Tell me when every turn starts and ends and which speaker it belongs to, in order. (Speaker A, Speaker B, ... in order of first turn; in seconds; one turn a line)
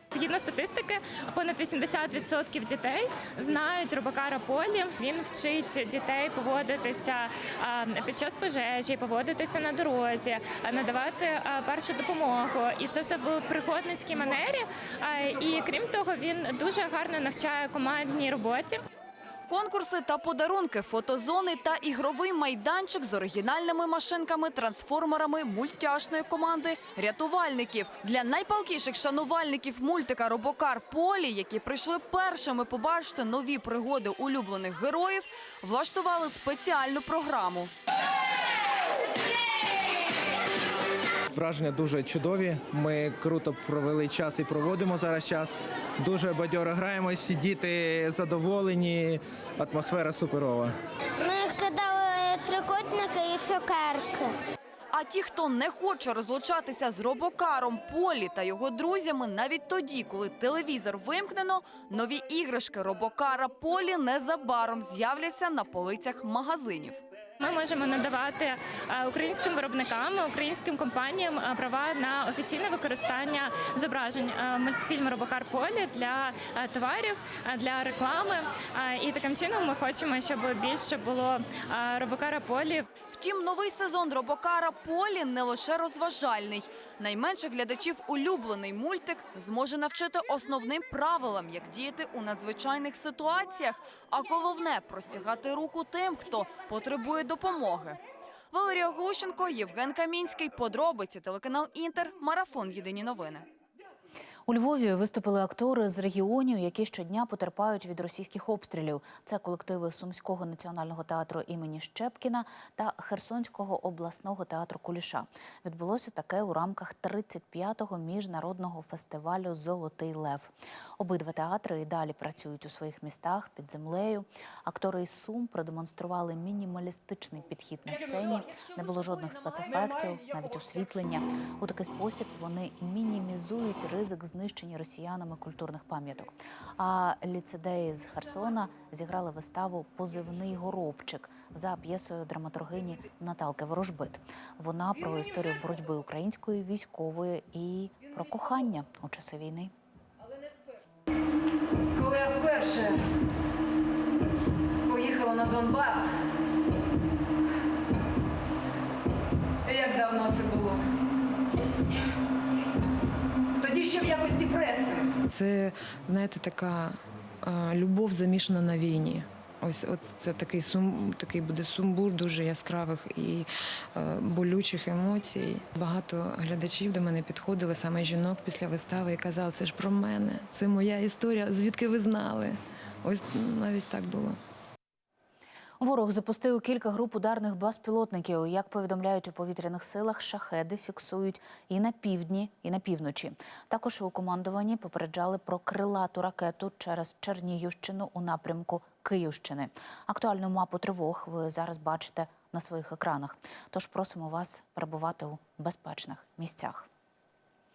Speaker A: 0.1-18.8
Speaker B: 19.5-37.7
Speaker C: 41.4-50.7
Speaker D: 51.2-54.3
Speaker B: 54.9-67.0
Speaker A: 67.4-82.9
Speaker B: 83.1-98.0
Speaker B: 98.5-103.4
Speaker E: 104.5-149.7
Speaker F: 152.0-152.9
Speaker F: 154.9-156.0
Speaker F: 159.7-160.8
Speaker F: 163.6-164.9
Speaker G: 165.3-184.4
Speaker E: 185.8-206.9